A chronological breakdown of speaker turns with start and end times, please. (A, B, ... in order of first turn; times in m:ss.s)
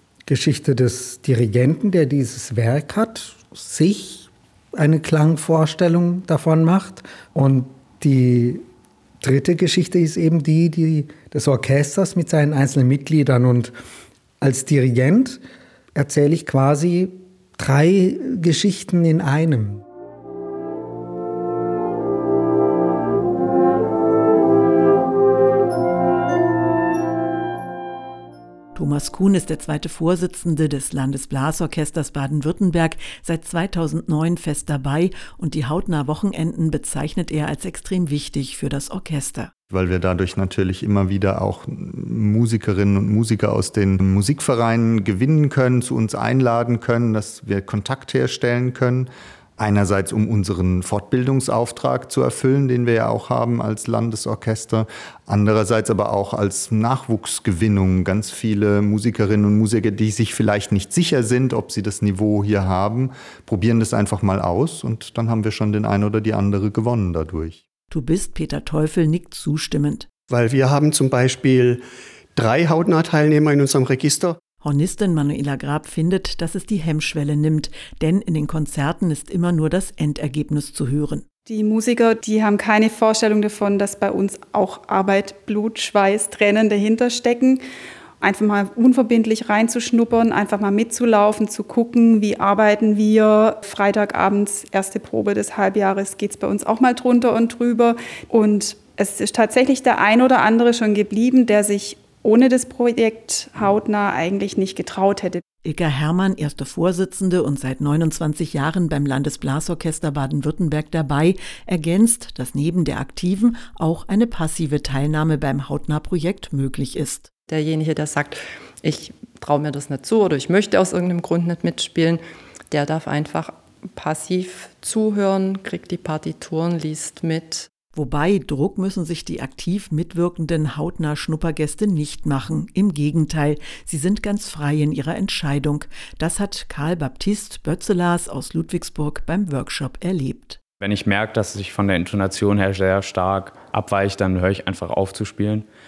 0:00.3-0:08.6 A
0:09.2-0:13.7 A
0:14.4-0:15.4 A
0:16.0-0:19.8 A
0:28.7-0:39.5 B
0:39.7-1:07.6 C
1:07.9-1:10.1 B
1:10.3-1:14.4 D
1:14.6-1:21.3 B
1:21.4-1:27.6 E
1:28.2-1:45.4 E
1:45.6-1:57.3 B
1:57.5-2:07.7 F
2:07.9-2:20.6 B
2:20.8-2:25.7 G